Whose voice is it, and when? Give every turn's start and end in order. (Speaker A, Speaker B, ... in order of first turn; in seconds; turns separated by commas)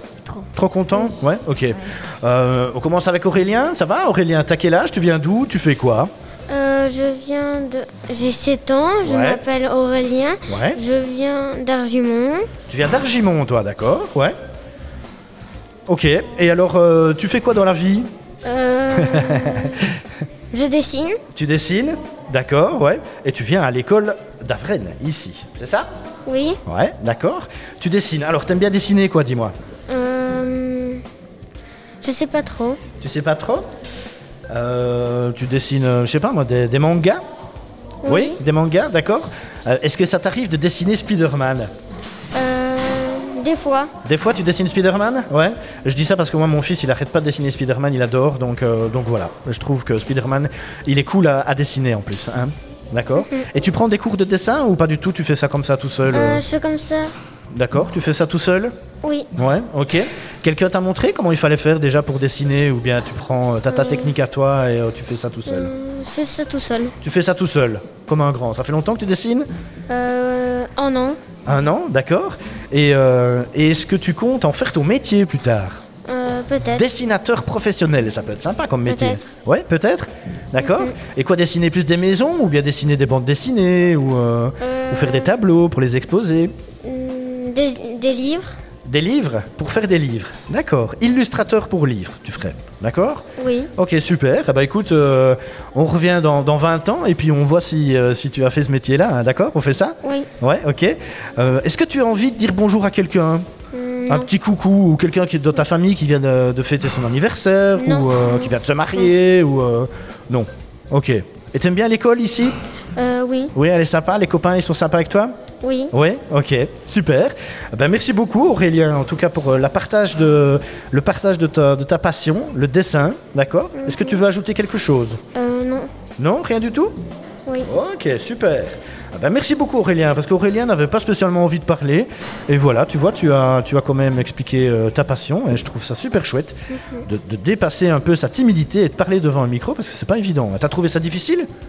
Speaker A: 0.5-6.1, Speaker B: 6.5-12.5, Speaker A: 9.0-9.4, Speaker A: 10.5-10.8, Speaker A: 12.7-14.3, Speaker A: 15.9-18.1, Speaker B: 18.4-19.9, Speaker A: 18.9-19.9, Speaker B: 20.5-21.2, Speaker A: 21.3-25.9, Speaker B: 26.2-26.6, Speaker A: 26.6-29.5, Speaker B: 29.9-31.0, Speaker B: 32.0-32.8, Speaker A: 33.0-33.7, Speaker A: 34.5-37.2, Speaker B: 38.0-38.4, Speaker A: 38.0-41.7, Speaker B: 42.3-43.9, Speaker A: 44.0-56.4, Speaker B: 53.2-53.5, Speaker B: 56.1-57.1, Speaker A: 57.5-58.7, Speaker B: 59.0-59.3, Speaker A: 59.4-65.7, Speaker B: 63.7-64.1, Speaker B: 65.5-66.9, Speaker A: 67.0-69.5, Speaker B: 69.9-71.2, Speaker A: 71.5-75.8, Speaker B: 76.0-76.8, Speaker A: 76.7-86.5, Speaker B: 78.8-79.2, Speaker B: 80.6-80.9, Speaker B: 84.6-85.3, Speaker B: 86.8-88.6, Speaker A: 88.8-103.5, Speaker B: 93.4-93.7, Speaker B: 100.0-100.3, Speaker B: 103.7-104.3, Speaker A: 104.1-112.5, Speaker B: 107.8-108.5, Speaker B: 112.9-113.5, Speaker A: 113.5-115.3, Speaker B: 115.6-115.9, Speaker A: 115.9-125.2, Speaker B: 123.7-124.2, Speaker B: 125.3-125.9, Speaker A: 126.2-126.9, Speaker A: 127.6-141.5, Speaker B: 136.7-137.1